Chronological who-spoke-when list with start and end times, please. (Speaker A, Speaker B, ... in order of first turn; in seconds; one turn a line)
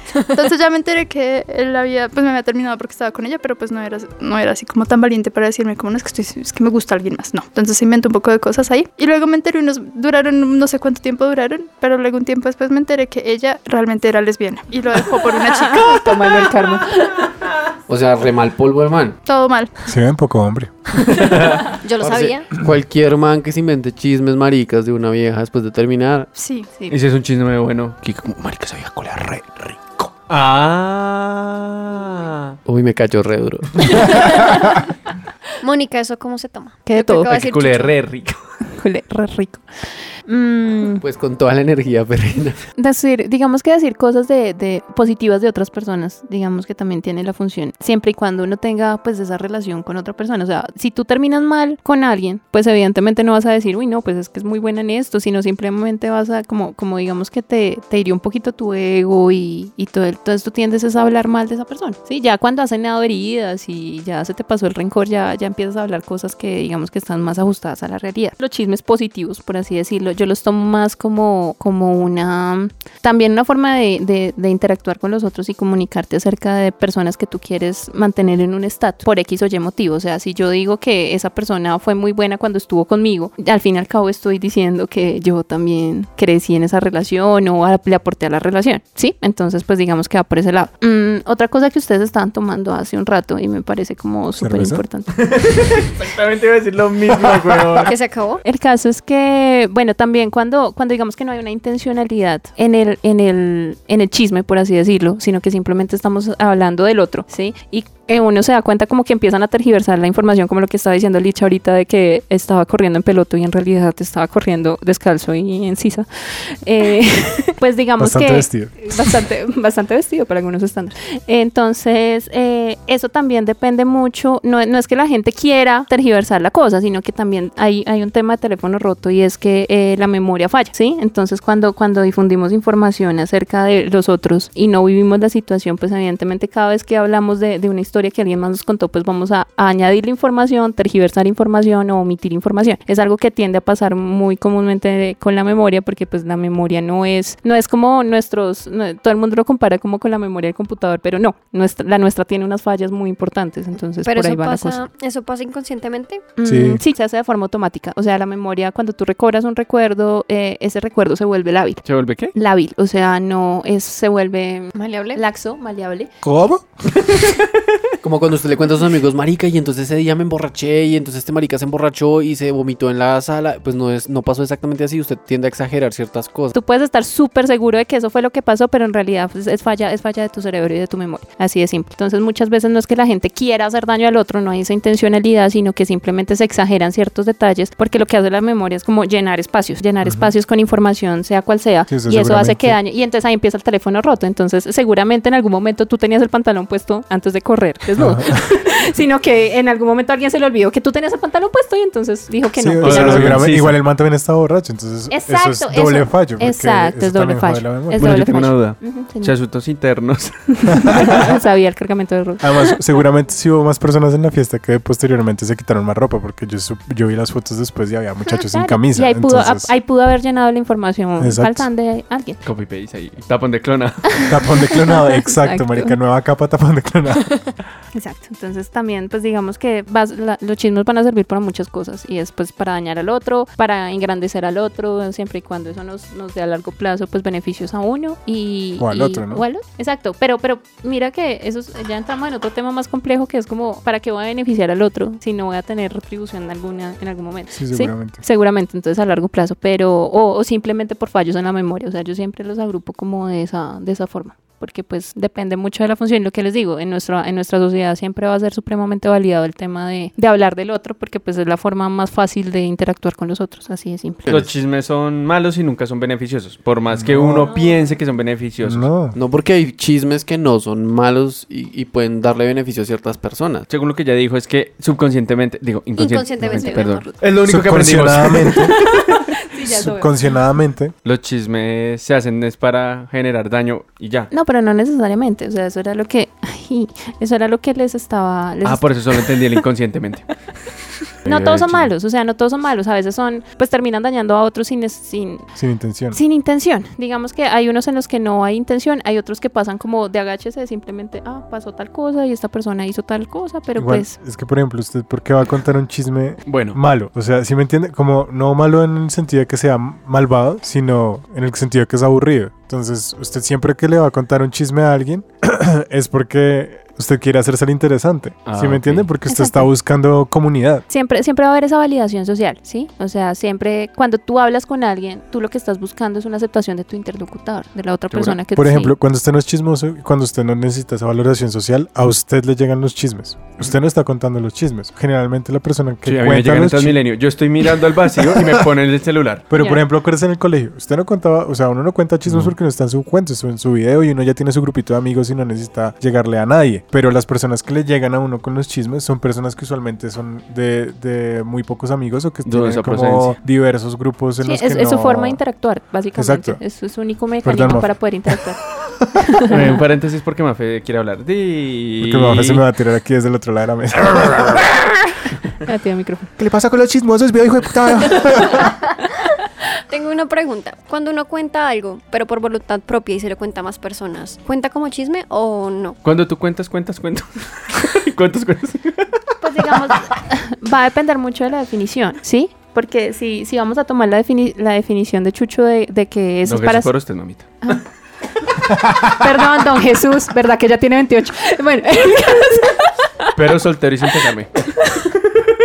Speaker A: 0.1-0.4
Speaker B: 0.3-16.4
Speaker C: 15.5-17.2
Speaker D: 17.9-19.2
Speaker B: 19.3-19.7
Speaker E: 19.9-20.7
Speaker F: 21.2-21.7
Speaker A: 21.8-22.5
Speaker D: 22.0-26.3
Speaker B: 26.4-26.7
Speaker F: 26.9-32.6
Speaker D: 32.7-34.0
Speaker A: 34.3-34.7
Speaker A: 35.6-37.9
Speaker C: 36.9-37.3
Speaker F: 37.1-38.4
Speaker C: 38.7-39.6
Speaker C: 40.3-41.0
Speaker D: 41.0-42.6
Speaker C: 42.8-95.1
Speaker E: 94.4-94.8
Speaker F: 95.2-97.9
Speaker A: 97.8-98.4
Speaker C: 98.4-154.8
Speaker E: 118.0-119.0
Speaker A: 154.0-156.3
Speaker C: 156.4-161.8
Speaker E: 156.4-156.8
Speaker F: 161.8-162.3
Speaker C: 162.3-166.1
Speaker A: 164.8-165.2
Speaker E: 166.2-166.7
Speaker D: 168.0-176.6
Speaker C: 176.5-203.4
Speaker E: 190.0-190.3
Speaker E: 191.9-192.8
Speaker E: 198.0-198.4
Speaker E: 202.6-208.3
Speaker F: 202.8-203.8
Speaker C: 205.1-209.4
Speaker F: 208.0-211.1
Speaker C: 210.6-212.5
Speaker E: 210.9-211.2
Speaker E: 212.4-219.7
Speaker C: 218.5-222.4
Speaker E: 221.2-221.7
Speaker F: 222.4-224.3
Speaker E: 224.3-227.4
Speaker C: 224.7-226.0
Speaker C: 227.9-264.3
Speaker E: 238.8-239.4
Speaker E: 247.5-248.2
Speaker F: 264.3-268.9
Speaker E: 266.9-267.5
Speaker E: 268.6-269.2
Speaker D: 269.1-273.7
Speaker F: 273.7-279.0
Speaker A: 275.9-277.2
Speaker C: 276.6-276.8
Speaker E: 277.4-278.8
Speaker C: 279.4-280.1
Speaker E: 279.7-280.9
Speaker F: 281.1-284.3
Speaker C: 284.3-288.9
Speaker F: 288.6-290.3
Speaker F: 291.2-291.9
Speaker C: 291.2-295.4
Speaker E: 295.6-296.2
Speaker C: 296.1-304.1
Speaker E: 303.8-320.9
Speaker F: 306.5-306.8
Speaker F: 318.5-319.1
Speaker C: 319.3-319.7
Speaker C: 320.9-328.9
Speaker F: 328.1-328.4
Speaker E: 328.6-337.0
Speaker F: 336.1-339.5
Speaker E: 338.1-338.6
Speaker E: 339.5-355.4
Speaker C: 339.6-339.8
Speaker F: 342.3-342.5
Speaker F: 352.4-353.4
Speaker C: 354.4-358.6
Speaker E: 356.1-356.6
Speaker E: 357.4-358.1
Speaker C: 359.3-359.6
Speaker F: 359.5-362.6
Speaker E: 362.0-365.0
Speaker C: 365.6-366.3
Speaker E: 366.4-368.8
Speaker A: 369.9-376.0
Speaker F: 376.0-379.2
Speaker C: 379.4-386.9
Speaker F: 386.5-387.5
Speaker C: 389.0-393.3
Speaker F: 393.4-394.7